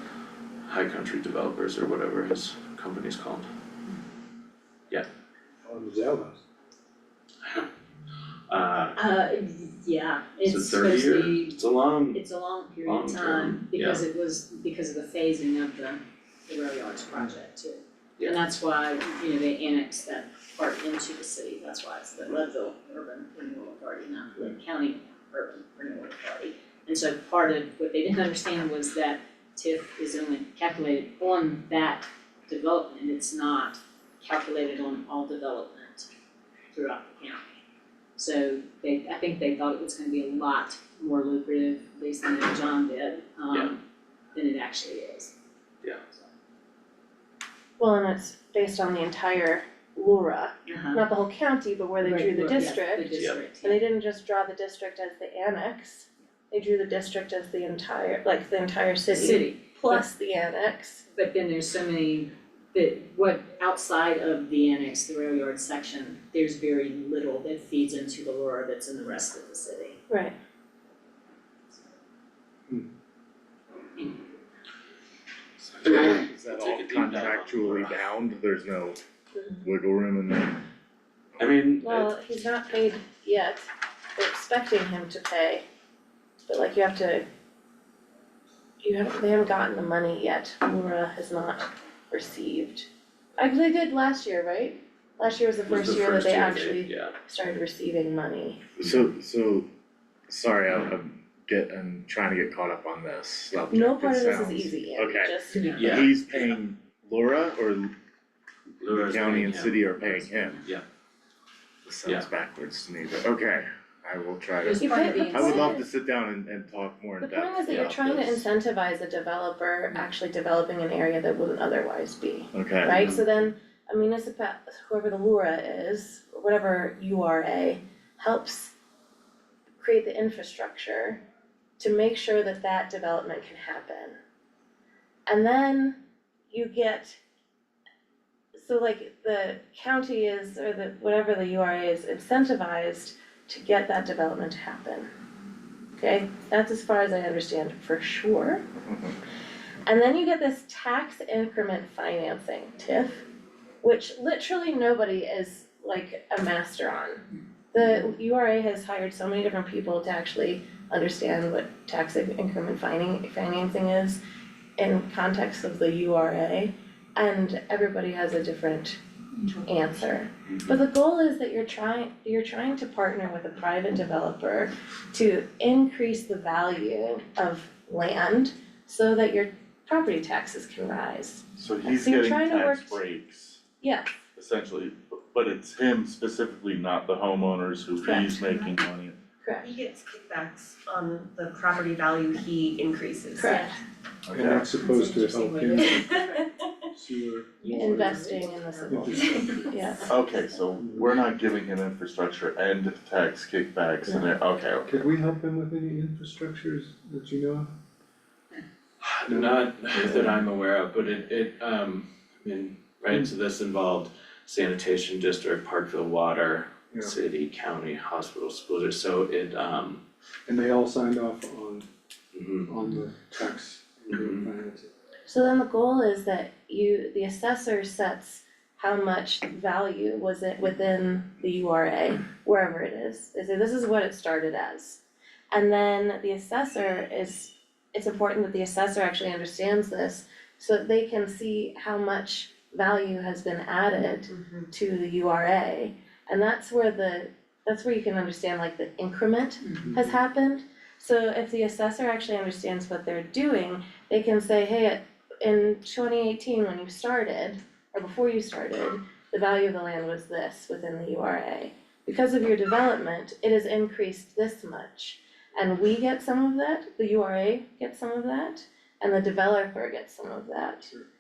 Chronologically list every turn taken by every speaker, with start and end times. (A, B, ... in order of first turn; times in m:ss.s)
0:00.7-0:03.5 A
0:05.6-0:06.4 B
0:07.4-0:07.7 A
0:08.5-0:09.0 A
0:09.0-0:11.6 C
0:10.4-0:12.2 A
0:12.1-0:36.1 C
0:12.8-0:14.0 A
0:36.7-0:37.4 C
0:38.2-0:43.8 C
0:44.4-0:45.3 C
0:47.8-0:53.1 D
0:50.7-0:51.1 C
0:52.0-0:53.8 C
0:53.1-0:53.4 A
0:53.6-1:01.0 D
0:59.1-1:00.0 C
1:01.1-1:10.0 C
1:10.1-1:10.4 D
1:15.6-1:18.1 A
1:15.8-1:19.0 E
1:19.6-1:20.6 E
1:21.4-1:22.1 A
1:21.8-1:25.6 D
1:26.5-1:27.2 D
1:28.8-1:38.6 D
1:35.7-1:37.2 A
1:38.8-1:39.7 E
1:40.3-1:47.9 E
1:43.7-1:45.7 D
1:45.5-1:46.1 C
1:45.8-1:46.6 A
1:48.8-1:50.8 A
1:48.9-1:50.6 E
1:51.8-1:58.4 E
1:54.6-1:55.8 C
1:54.8-1:55.8 D
1:57.2-2:08.7 D
1:57.7-1:58.4 A
2:02.5-2:03.0 E
2:09.8-2:11.2 D
2:11.8-2:14.2 D
2:15.3-2:16.0 D
2:16.5-2:17.2 D
2:18.6-2:25.1 D
2:26.0-2:28.7 D
2:29.9-2:33.2 D
2:33.8-2:44.2 D
2:44.8-2:49.0 D
2:49.5-3:03.0 D
3:01.6-3:03.6 F
3:03.8-3:04.1 D
3:04.4-3:08.8 F
3:08.0-3:08.4 D
3:08.4-3:08.8 G
3:08.7-3:09.1 E
3:09.4-3:09.7 D
3:09.6-3:13.6 G
3:13.4-3:13.8 D
3:13.4-3:13.8 C
3:14.3-3:16.2 B
3:14.8-3:16.6 C
3:17.0-3:18.3 B
3:17.6-3:18.6 C
3:17.7-3:20.1 D
3:18.7-3:19.7 G
3:18.9-3:19.9 B
3:20.1-3:23.8 F
3:20.8-3:21.2 B
3:23.6-3:24.9 A
3:24.8-3:27.7 B
3:29.0-3:40.0 A
3:29.3-3:30.2 B
3:40.5-3:41.9 B
3:42.3-3:42.7 A
3:42.7-3:44.9 B
3:44.1-3:44.5 A
3:45.3-3:55.0 D
3:55.5-4:30.9 D
4:03.9-4:04.7 G
4:09.9-4:10.1 B